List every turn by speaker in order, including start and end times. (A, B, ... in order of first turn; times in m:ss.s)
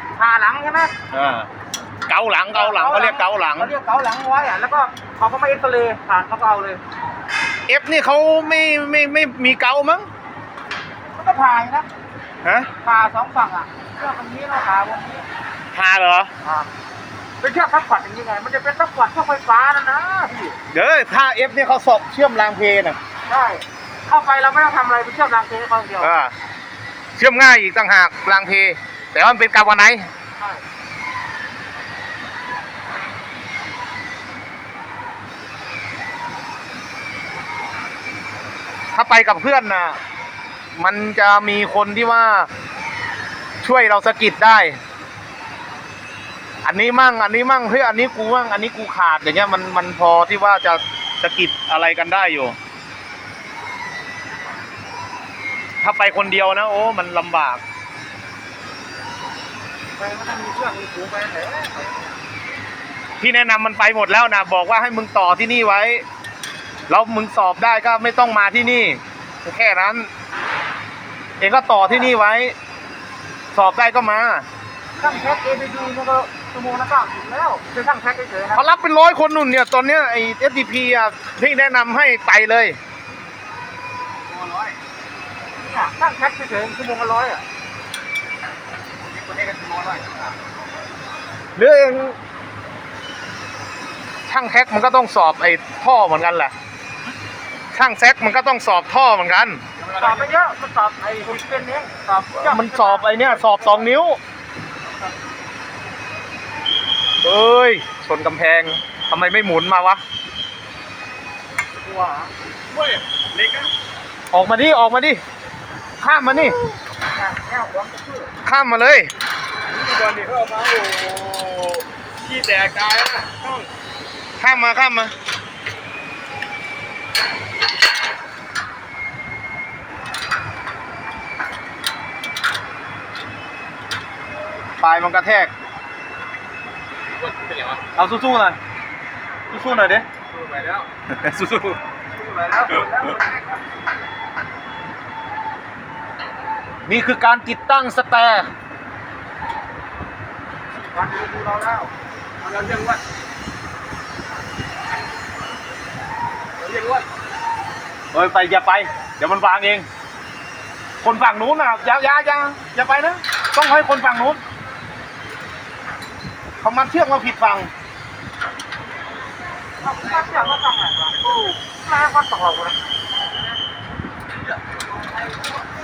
0:00.2-0:00.9 A
0:01.1-0:01.5 B
0:02.1-0:03.7 B
0:02.5-0:06.8 A
0:07.7-0:10.1 B
0:11.2-0:11.9 A
0:12.4-0:12.7 B
0:12.8-0:15.3 A
0:15.7-0:16.3 B
0:17.4-0:20.6 A
0:20.7-0:23.0 B
0:23.3-0:26.1 A
0:26.0-0:26.3 B
0:27.2-0:30.1 B
0:39.0-0:40.0 B
0:40.8-0:42.5 B
0:43.6-0:44.8 B
0:46.6-0:52.6 B
0:55.8-0:57.6 B
1:00.0-1:02.1 A
1:03.2-1:06.0 B
1:06.9-1:10.1 B
1:11.4-1:12.6 B
1:13.5-1:14.5 B
1:15.0-1:18.6 A
1:18.6-1:22.8 B
1:25.6-1:27.4 A
1:29.1-1:30.3 C
1:31.6-1:32.2 B
1:34.3-1:36.5 B
1:37.7-1:39.6 B
1:39.9-1:43.2 A
1:42.4-1:44.2 B
1:47.2-1:50.0 B
1:51.8-1:52.3 A
1:52.7-1:53.7 C
1:54.3-1:55.2 B
1:56.0-1:56.6 B
1:57.1-1:58.3 A
1:58.4-1:59.1 B
1:59.7-2:03.6 C
2:04.4-2:05.1 B
2:14.8-2:15.5 B
2:17.2-2:17.8 C
2:18.0-2:18.6 B
2:19.5-2:20.1 B
2:20.3-2:20.9 C
2:21.1-2:21.8 B
2:26.9-2:28.5 B
2:30.9-2:31.9 A
2:32.4-2:33.0 C
2:36.6-2:37.0 C
2:38.1-2:39.9 B
2:41.0-2:44.4 B
2:46.6-2:47.7 B
2:49.8-2:52.8 A